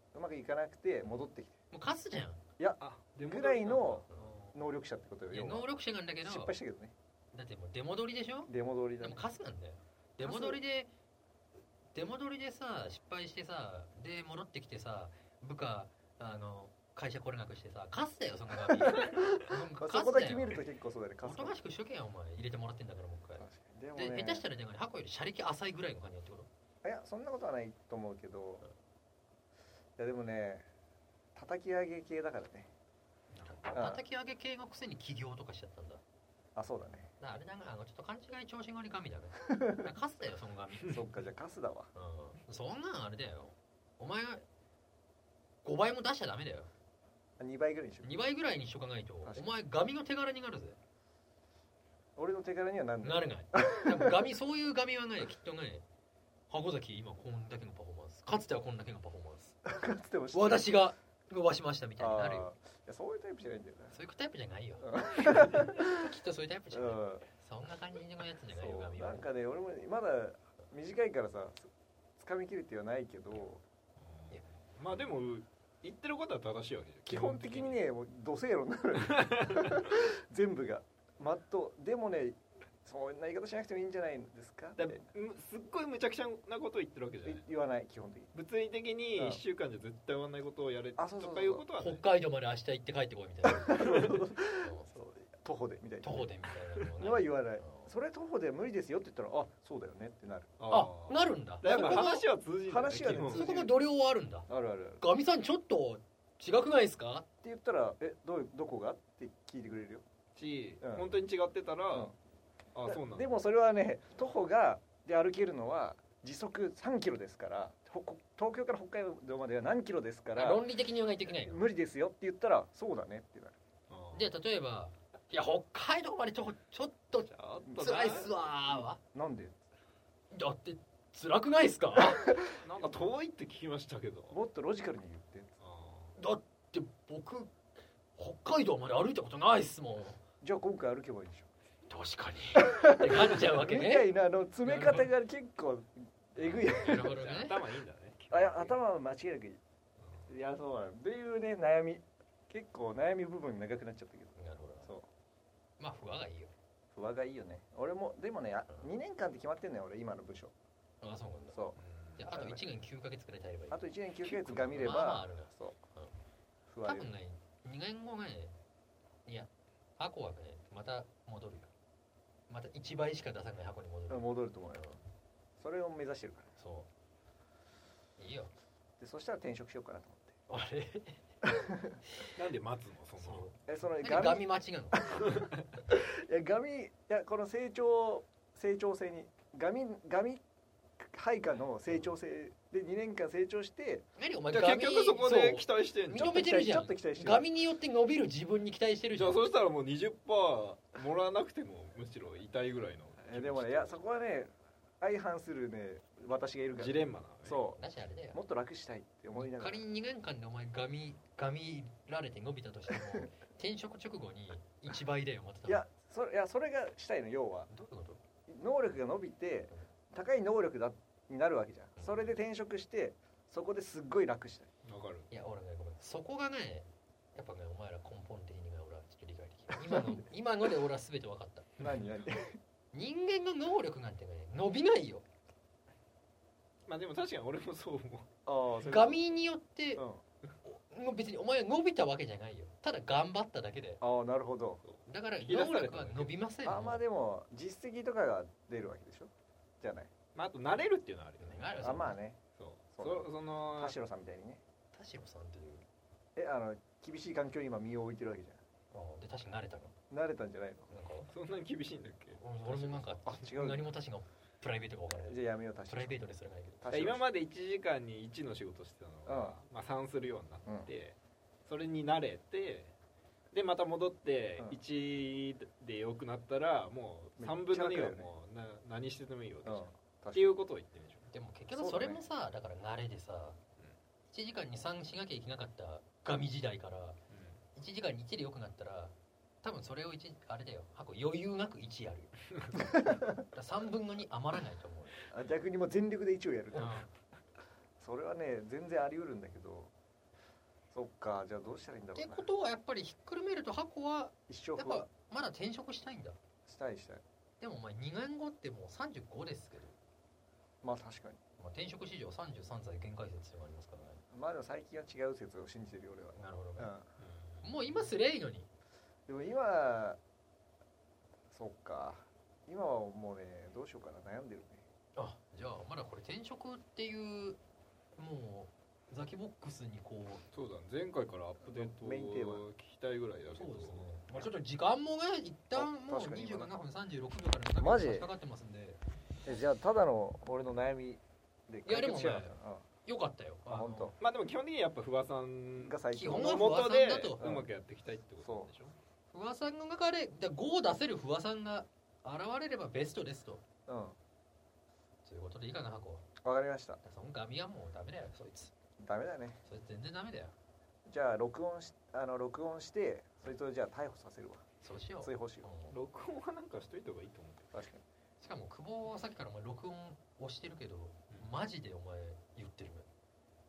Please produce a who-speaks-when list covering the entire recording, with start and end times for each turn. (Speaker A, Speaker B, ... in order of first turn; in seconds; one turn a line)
Speaker A: 0.1-1.5
Speaker B: 1.7-2.4
Speaker A: 2.6-5.7
Speaker C: 2.8-4.5
Speaker B: 4.1-4.4
Speaker B: 5.3-6.5
Speaker A: 6.2-6.9
Speaker B: 7.3-10.9
Speaker A: 8.5-9.2
Speaker A: 10.2-10.6
Speaker B: 11.9-20.6
Speaker A: 18.7-21.6
Speaker B: 21.2-26.5
Speaker A: 23.4-24.4
Speaker A: 26.8-28.6
Speaker A: 30.0-30.7
Speaker A: 31.4-32.7
Speaker C: 33.3-33.6
Speaker B: 33.4-36.0
Speaker A: 33.7-34.0
Speaker A: 36.5-37.1
Speaker B: 37.2-41.0
Speaker A: 39.5-39.9
Speaker A: 40.9-41.9
Speaker B: 41.9-44.4
Speaker B: 45.6-46.7
Speaker A: 47.4-48.1
Speaker B: 48.0-50.8
Speaker A: 49.2-49.5
Speaker A: 52.1-54.2
Speaker B: 53.0-55.8
Speaker B: 56.5-59.5
Speaker A: 59.6-60.8
Speaker B: 60.3-62.5
Speaker A: 62.0-64.0
Speaker B: 63.9-69.3
Speaker A: 64.8-65.9
Speaker A: 66.7-67.2
Speaker A: 68.5-73.6
Speaker C: 74.0-77.8
Speaker A: 77.1-85.0
Speaker C: 79.0-79.9
Speaker C: 84.8-87.4
Speaker A: 87.2-88.3
Speaker C: 88.3-92.0
Speaker A: 89.2-89.4
Speaker A: 91.0-91.6
Speaker B: 91.8-94.9
Speaker A: 93.5-96.3
Speaker B: 96.0-97.9
Speaker A: 97.0-100.5
Speaker C: 100.6-103.5
Speaker B: 100.7-102.2
Speaker A: 101.7-102.1
Speaker A: 102.7-103.7
Speaker B: 103.3-104.5
Speaker A: 104.5-105.0
Speaker B: 105.0-107.2
Speaker A: 107.4-110.0
Speaker C: 110.3-112.1
Speaker A: 110.8-111.1
Speaker C: 112.7-113.3
Speaker A: 112.8-120.7
Speaker B: 120.3-121.6
Speaker A: 121.3-123.5
Speaker C: 123.9-124.3
Speaker B: 124.1-129.0
Speaker C: 127.2-128.3
Speaker A: 128.8-129.6
Speaker B: 130.3-132.4
Speaker C: 132.6-134.3
Speaker A: 134.3-135.5
Speaker C: 135.6-136.2
Speaker B: 136.2-137.5
Speaker B: 138.2-140.2
Speaker A: 140.4-141.5
Speaker B: 141.9-144.1
Speaker A: 142.5-147.1
Speaker B: 144.6-145.1
Speaker B: 146.4-147.6
Speaker C: 146.4-148.8
Speaker A: 148.3-149.6
Speaker A: 150.3-154.3
Speaker B: 154.3-154.9
Speaker B: 155.8-156.5
Speaker A: 156.9-160.5
Speaker B: 161.0-166.1
Speaker A: 161.5-162.6
Speaker C: 161.8-162.2
Speaker A: 163.7-165.8
Speaker A: 166.7-167.1
Speaker B: 166.8-168.5
Speaker B: 169.2-171.7
Speaker B: 172.5-174.3
Speaker A: 174.1-175.0
Speaker A: 175.6-176.5
Speaker B: 176.6-176.9
Speaker B: 178.2-178.5
Speaker A: 179.0-180.3
Speaker B: 180.5-181.2
Speaker A: 181.4-181.9
Speaker C: 182.3-183.5
Speaker B: 183.2-185.2
Speaker A: 183.7-184.5
Speaker C: 185.1-185.6
Speaker A: 185.9-190.4
Speaker A: 191.0-194.0
Speaker B: 194.2-199.4
Speaker C: 194.5-196.4
Speaker A: 196.2-197.5
Speaker C: 199.1-204.0
Speaker A: 203.2-207.8
Speaker C: 206.7-207.6
Speaker B: 207.8-208.4
Speaker A: 208.3-209.8
Speaker B: 209.3-215.8
Speaker A: 215.7-217.7
Speaker B: 217.7-218.2
Speaker A: 218.5-224.7
Speaker B: 222.0-222.3
Speaker C: 224.8-225.3
Speaker B: 225.3-231.8
Speaker A: 229.8-230.2
Speaker A: 231.8-232.6
Speaker B: 232.9-235.2
Speaker C: 236.9-238.3
Speaker A: 238.4-239.2
Speaker B: 238.8-240.0
Speaker A: 239.9-240.2
Speaker B: 240.6-244.0
Speaker A: 244.0-244.8
Speaker C: 244.8-246.3
Speaker B: 245.1-247.0
Speaker A: 246.6-250.1
Speaker C: 250.3-252.0
Speaker B: 251.4-252.2
Speaker A: 251.8-252.4
Speaker C: 252.6-253.9
Speaker A: 252.9-254.6
Speaker B: 254.9-255.8
Speaker A: 256.4-258.6
Speaker B: 258.9-259.9
Speaker A: 260.1-260.9
Speaker B: 260.9-261.3
Speaker C: 261.3-263.2
Speaker B: 262.4-266.8
Speaker A: 263.2-263.9
Speaker A: 265.1-266.3
Speaker A: 266.8-267.2
Speaker C: 266.9-272.9
Speaker A: 269.3-269.5
Speaker C: 273.5-281.3
Speaker A: 277.4-278.3
Speaker A: 279.6-280.6
Speaker B: 281.3-283.6
Speaker A: 281.7-282.2
Speaker B: 284.3-287.2
Speaker C: 287.3-287.6
Speaker B: 287.8-292.3
Speaker A: 292.9-293.4
Speaker B: 292.9-295.2
Speaker A: 295.3-297.0
Speaker B: 296.7-297.1
Speaker A: 298.0-299.9
Speaker A: 300.9-302.5
Speaker B: 302.1-306.4
Speaker A: 304.5-305.1
Speaker A: 306.6-307.2
Speaker B: 307.6-310.0
Speaker A: 310.8-311.4
Speaker B: 311.6-314.2
Speaker A: 314.3-317.1
Speaker B: 316.4-316.9
Speaker C: 317.2-318.0
Speaker B: 317.6-318.7
Speaker A: 319.3-320.2
Speaker A: 321.5-324.8
Speaker B: 325.1-327.6
Speaker B: 328.2-330.4
Speaker C: 330.5-334.2
Speaker A: 331.6-332.6
Speaker B: 333.5-339.0
Speaker A: 335.7-336.7
Speaker A: 337.8-338.3
Speaker A: 339.4-342.8
Speaker B: 341.9-344.1
Speaker A: 343.7-344.1
Speaker C: 344.2-348.9
Speaker A: 345.8-346.8
Speaker B: 346.1-347.4
Speaker A: 347.4-347.7
Speaker A: 348.4-348.7
Speaker B: 349.3-353.6
Speaker A: 353.9-354.1
Speaker B: 355.2-356.2
Speaker A: 356.4-357.0
Speaker B: 357.0-358.7
Speaker A: 359.0-359.6
Speaker B: 359.6-360.5
Speaker A: 361.1-364.6
Speaker B: 364.8-365.9
Speaker A: 365.2-365.7
Speaker C: 365.9-367.7
Speaker A: 367.7-368.0
Speaker B: 368.4-373.1